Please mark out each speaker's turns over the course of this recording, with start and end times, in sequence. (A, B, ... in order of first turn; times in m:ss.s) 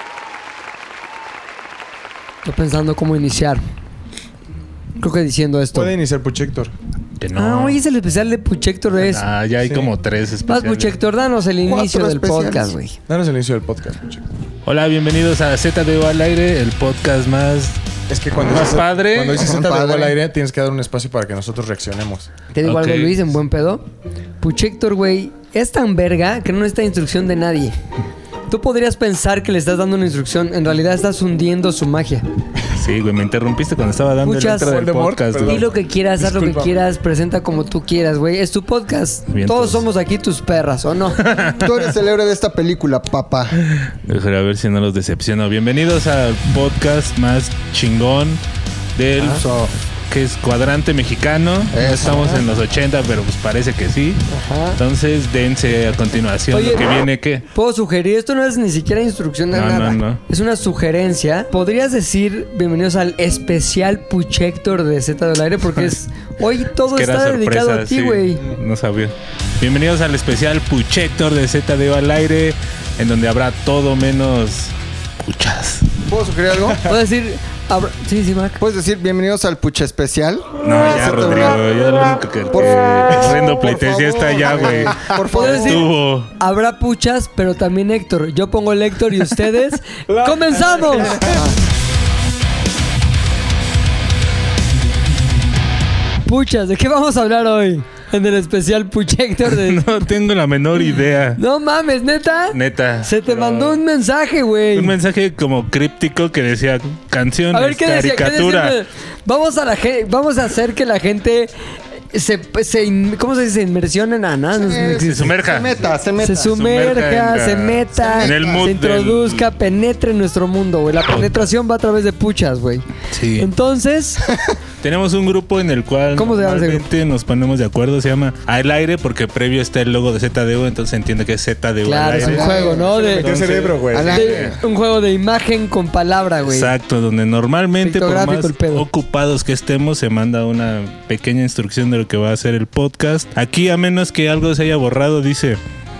0:02.4-0:03.6 A
0:05.0-0:05.9 A
0:05.7-0:06.7 B
0:07.2-0:07.8 C
0:07.4-0:09.2 A
0:09.0-0:11.0 C
0:09.6-0:09.9 B
0:10.4-0:13.0 A
0:11.6-0:12.7 D
0:13.1-0:14.2 B
0:14.6-0:17.8 C
0:18.1-0:22.3 B
0:18.5-0:19.5 C
0:19.4-0:20.2 D
0:22.5-0:23.8 A
0:22.6-0:23.1 C
0:24.4-0:27.8 A
0:28.5-0:32.2 A
0:32.7-0:35.7 C
0:34.2-0:34.8 A
0:34.6-0:36.8 B
0:35.4-0:41.2 A
0:39.3-0:39.8 C
0:41.2-0:41.8 C
0:41.6-0:43.6 D
0:43.6-0:48.4 C
0:49.0-0:57.4 C
0:49.2-0:49.7 D
0:51.7-0:52.4 D
0:54.3-0:54.8 A
0:56.5-0:56.9 A
0:57.5-1:08.4 A
0:59.5-1:00.2 C
1:06.9-1:15.9 C
1:16.1-1:16.8 D
1:16.9-1:18.6 A
1:18.6-1:21.6 D
1:20.6-1:26.3 C
1:22.5-1:23.6 D
1:23.1-1:25.5 B
1:24.1-1:25.9 D
1:25.3-1:31.1 A
1:30.1-1:31.4 B
1:31.1-1:31.6 D
1:36.2-1:39.8 A
1:39.5-1:41.4 C
1:41.4-1:45.0 A
1:42.5-1:43.8 C
1:44.7-1:48.8 C
1:47.5-1:51.5 A
1:52.1-1:55.3 A
1:54.5-1:56.5 D
1:55.0-1:55.8 C
1:56.2-2:02.8 A
1:56.5-1:59.4 C
1:58.0-1:58.6 D
2:01.1-2:01.5 C
2:03.1-2:03.5 C
2:03.4-2:04.2 A
2:04.8-2:12.5 C
2:06.1-2:06.8 A
2:11.8-2:13.3 A
2:12.2-2:14.5 B
2:12.2-2:14.6 D
2:14.0-2:16.7 A
2:16.4-2:25.6 C
2:17.8-2:18.8 A